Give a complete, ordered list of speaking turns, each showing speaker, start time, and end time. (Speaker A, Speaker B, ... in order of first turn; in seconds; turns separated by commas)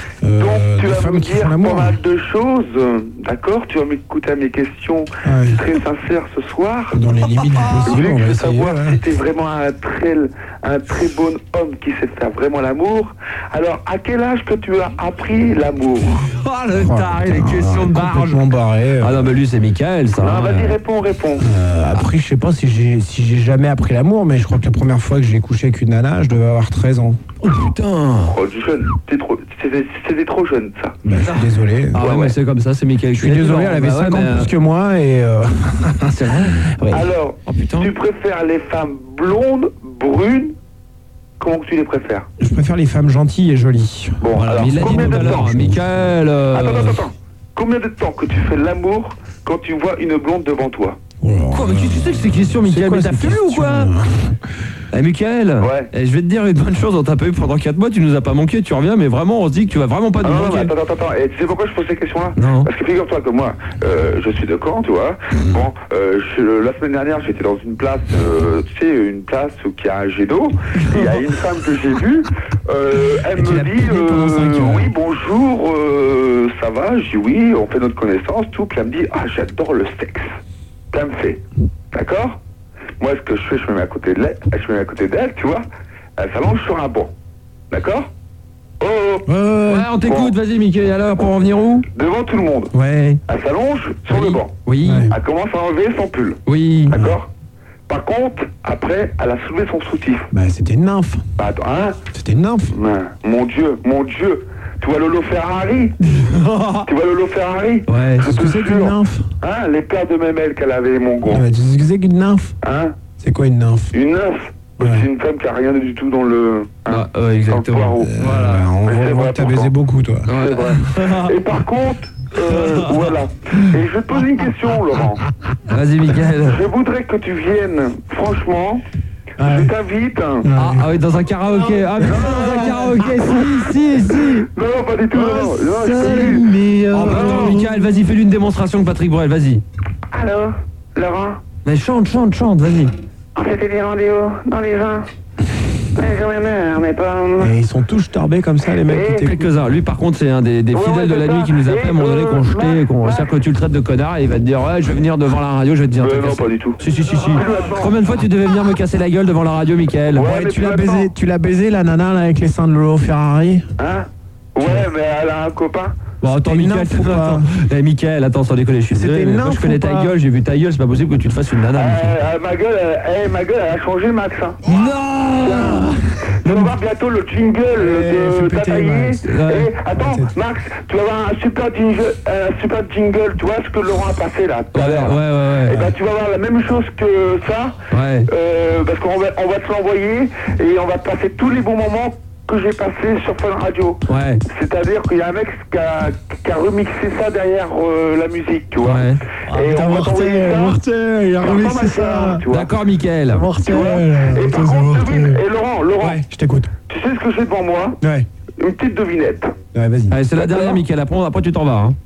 Speaker A: 0.2-2.0, Speaker B: 0.4-7.0, Speaker A: 5.2-5.6, Speaker A: 6.9-9.0, Speaker B: 7.8-16.3, Speaker C: 16.3-18.5, Speaker A: 16.7-19.4, Speaker C: 19.0-20.8, Speaker B: 20.2-21.5, Speaker A: 21.4-27.2, Speaker C: 27.4-28.4, Speaker B: 28.2-31.0, Speaker A: 31.0-32.0, Speaker C: 31.2-34.5, Speaker B: 32.0-32.4, Speaker A: 33.1-37.1, Speaker C: 36.1-36.8, Speaker B: 36.9-40.6, Speaker C: 37.5-37.9, Speaker B: 41.4-42.3, Speaker A: 42.4-45.9, Speaker B: 44.2-45.6, Speaker C: 44.3-47.0, Speaker B: 46.5-51.0, Speaker A: 51.2-54.4, Speaker C: 51.5-53.9, Speaker C: 54.9-60.7, Speaker B: 55.6-55.9, Speaker B: 60.2-80.3, Speaker C: 62.4-62.7, Speaker A: 73.3-74.9, Speaker B: 80.9-82.4, Speaker B: 83.0-85.6, Speaker B: 86.2-87.1, Speaker B: 87.7-88.1, Speaker B: 88.8-89.3, Speaker A: 89.3-89.9, Speaker C: 89.6-91.9, Speaker B: 90.0-90.4, Speaker B: 91.9-92.7, Speaker C: 92.7-93.2, Speaker B: 93.3-97.3, Speaker C: 94.1-95.1, Speaker A: 94.8-95.2, Speaker C: 96.5-97.0, Speaker A: 96.9-97.2, Speaker B: 97.9-100.3, Speaker A: 100.3-101.2, Speaker B: 101.4-102.0, Speaker A: 102.1-102.8, Speaker B: 102.7-106.0, Speaker C: 106.1-106.9, Speaker B: 106.8-111.5, Speaker C: 107.9-108.3, Speaker A: 108.2-109.3, Speaker A: 111.2-112.6, Speaker B: 112.6-113.0, Speaker A: 113.2-114.0, Speaker B: 113.9-118.1, Speaker A: 114.8-115.1, Speaker C: 116.9-118.7, Speaker A: 118.0-120.3, Speaker B: 118.8-119.7, Speaker C: 120.3-121.3, Speaker B: 120.3-125.2, Speaker C: 125.7-126.6, Speaker B: 126.5-128.8, Speaker A: 129.4-129.7, Speaker B: 129.4-130.5, Speaker A: 130.4-130.9, Speaker C: 130.6-134.5, Speaker A: 131.6-133.5, Speaker B: 132.0-133.1, Speaker B: 134.5-137.6, Speaker C: 135.1-139.6, Speaker A: 135.9-137.9, Speaker D: 140.1-141.3, Speaker B: 141.1-141.4, Speaker C: 141.6-142.9, Speaker D: 143.4-145.1, Speaker D: 146.0-147.5, Speaker A: 147.4-149.6, Speaker B: 148.9-149.2, Speaker C: 149.2-160.3, Speaker B: 150.7-153.3, Speaker B: 156.0-158.0, Speaker B: 160.1-161.1, Speaker A: 160.2-163.7, Speaker B: 163.8-166.0, Speaker C: 166.2-172.2, Speaker A: 166.3-167.5, Speaker A: 168.9-170.1, Speaker B: 171.7-174.7, Speaker C: 174.7-176.8, Speaker B: 175.4-200.8, Speaker A: 177.7-179.2, Speaker C: 179.2-179.7, Speaker A: 179.9-180.3, Speaker C: 184.7-185.9, Speaker C: 187.9-188.3, Speaker C: 194.1-194.4, Speaker C: 198.8-199.2, Speaker A: 199.5-202.4, Speaker B: 201.4-202.7, Speaker C: 202.5-203.5, Speaker A: 203.3-205.4, Speaker B: 203.6-206.2, Speaker A: 206.0-206.7, Speaker B: 206.9-208.0, Speaker A: 208.0-208.3, Speaker B: 208.6-209.6, Speaker A: 209.7-210.2, Speaker C: 210.1-212.0, Speaker B: 210.5-210.8